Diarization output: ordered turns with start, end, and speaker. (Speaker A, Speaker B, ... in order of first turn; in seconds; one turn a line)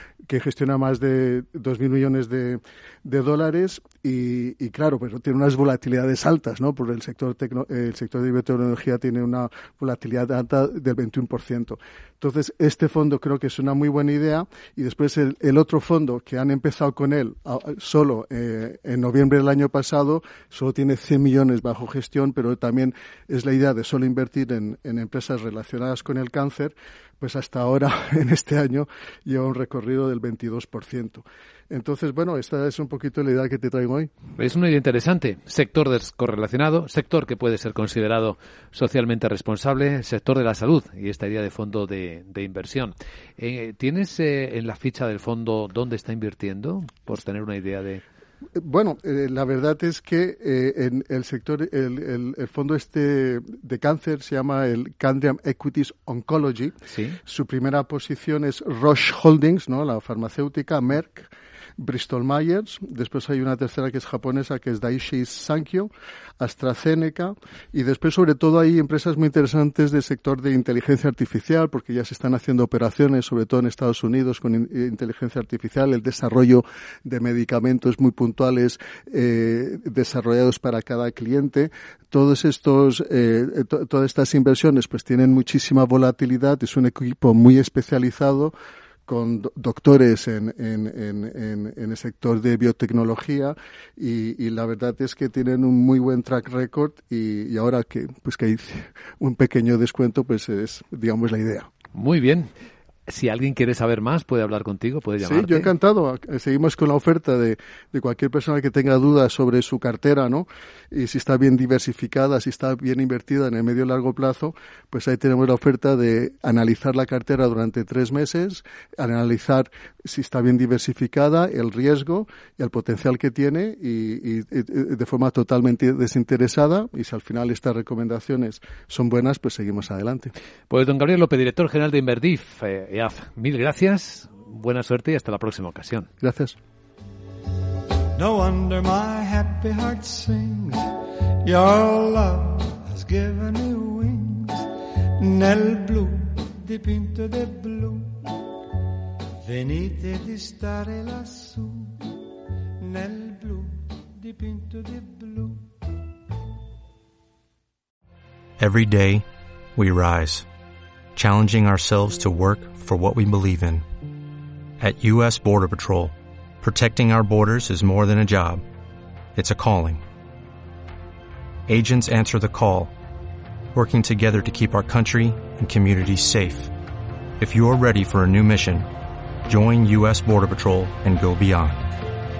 Speaker A: 0.3-34.1
Speaker B: 34.4-48.0
Speaker A: 48.5-56.7
Speaker B: 56.9-57.2
Speaker A: 57.2-88.5
Speaker A: 89.1-101.7
Speaker B: 101.9-102.5
Speaker B: 103.1-105.7
Speaker A: 105.2-130.3
Speaker B: 130.7-136.1
Speaker A: 136.2-136.6
Speaker C: 138.1-148.4
Speaker C: 149.4-152.2
Speaker C: 152.8-155.7
Speaker D: 158.6-160.5
Speaker D: 161.1-163.8
Speaker D: 164.8-168.6
Speaker D: 169.3-170.0
Speaker D: 171.7-172.9
Speaker D: 173.7-176.7
Speaker D: 177.4-178.9
Speaker D: 179.5-181.8